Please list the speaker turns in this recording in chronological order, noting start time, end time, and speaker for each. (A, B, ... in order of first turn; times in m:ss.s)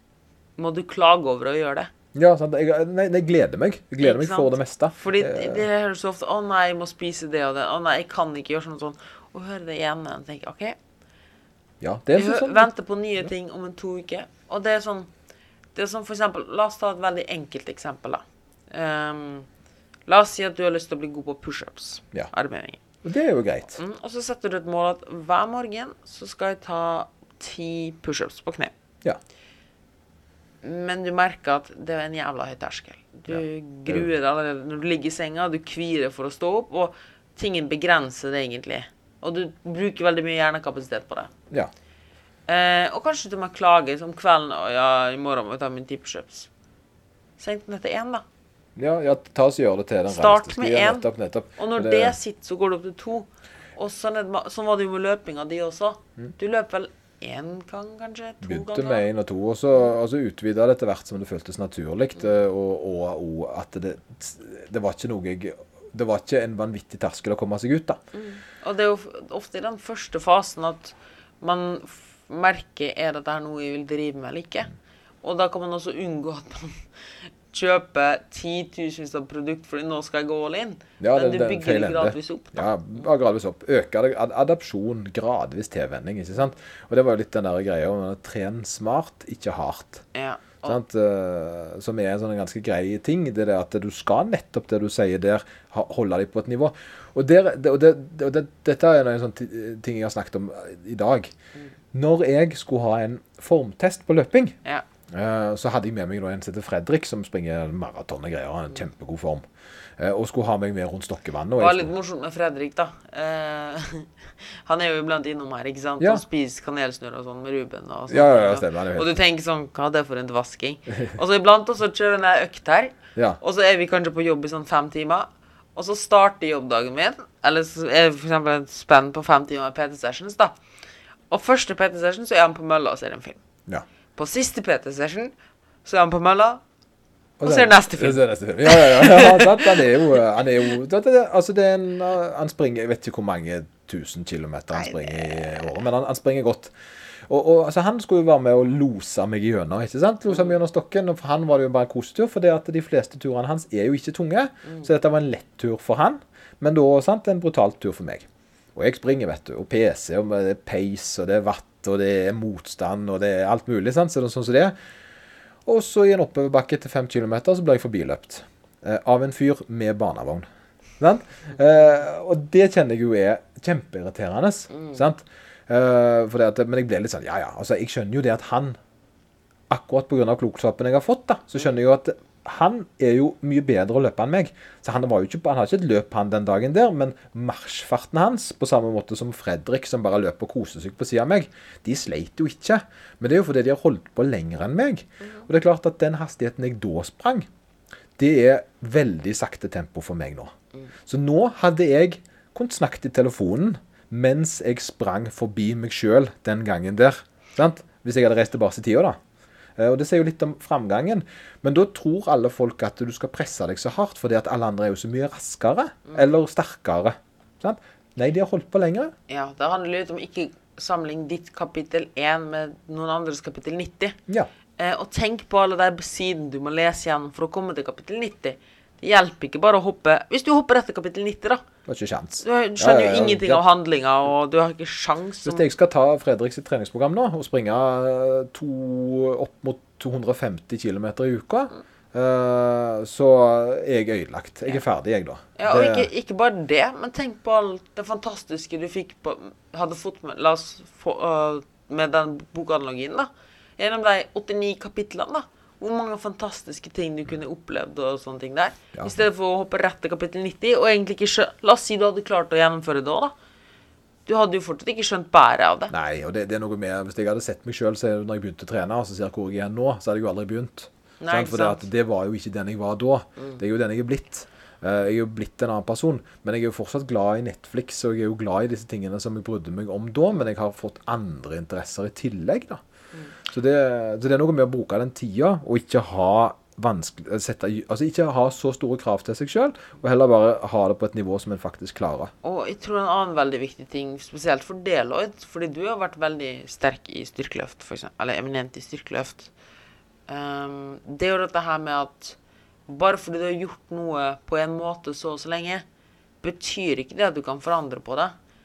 0:00.6-0:01.9 A
0:02.1-0:05.7 B
0:04.0-0:10.8 A
0:11.8-0:12.7 B
0:12.1-0:15.1 A
0:15.7-0:19.5 A
0:20.1-0:22.8 A
0:23.0-0:23.8 B
0:23.8-0:28.7 A
0:30.6-0:41.3 A
0:33.3-0:34.1 B
0:42.5-0:46.5 A
0:47.4-0:48.2 A
0:48.8-0:52.2 B
0:50.1-0:59.0 A
0:58.4-1:08.0 B
1:08.1-1:14.7 A
1:15.2-1:22.7 A
1:21.0-1:30.0 B
1:30.1-1:30.8 A
1:30.6-1:41.3 B
1:41.9-1:44.6 B
1:45.1-1:49.4 B
1:50.0-1:51.9 B
1:51.6-2:10.6 A
1:58.1-1:59.1 B
2:11.3-2:13.4 A
2:14.2-2:15.3 A
2:15.8-2:16.6 A
2:17.4-2:26.7 B
2:17.4-2:20.2 A
2:24.7-2:25.8 A
2:27.3-2:44.7 B
2:45.6-2:50.4 B
2:51.0-2:58.8 B
2:59.7-3:17.5 B
3:15.2-3:15.4 A
3:18.2-3:20.5 B
3:21.1-3:29.2 B
3:29.8-3:39.1 B
3:39.3-3:44.2 A
3:44.8-3:51.6 A
3:51.9-3:53.6 B
3:52.4-3:55.7 A
3:55.4-4:06.1 B
4:05.6-4:23.3 A
4:18.9-4:19.2 B
4:24.2-4:25.9 A
4:25.9-4:42.8 B
4:31.2-4:31.8 A
4:43.5-4:52.3 B
4:52.4-4:59.5 A
5:00.3-5:05.8 A
5:06.4-5:08.3 A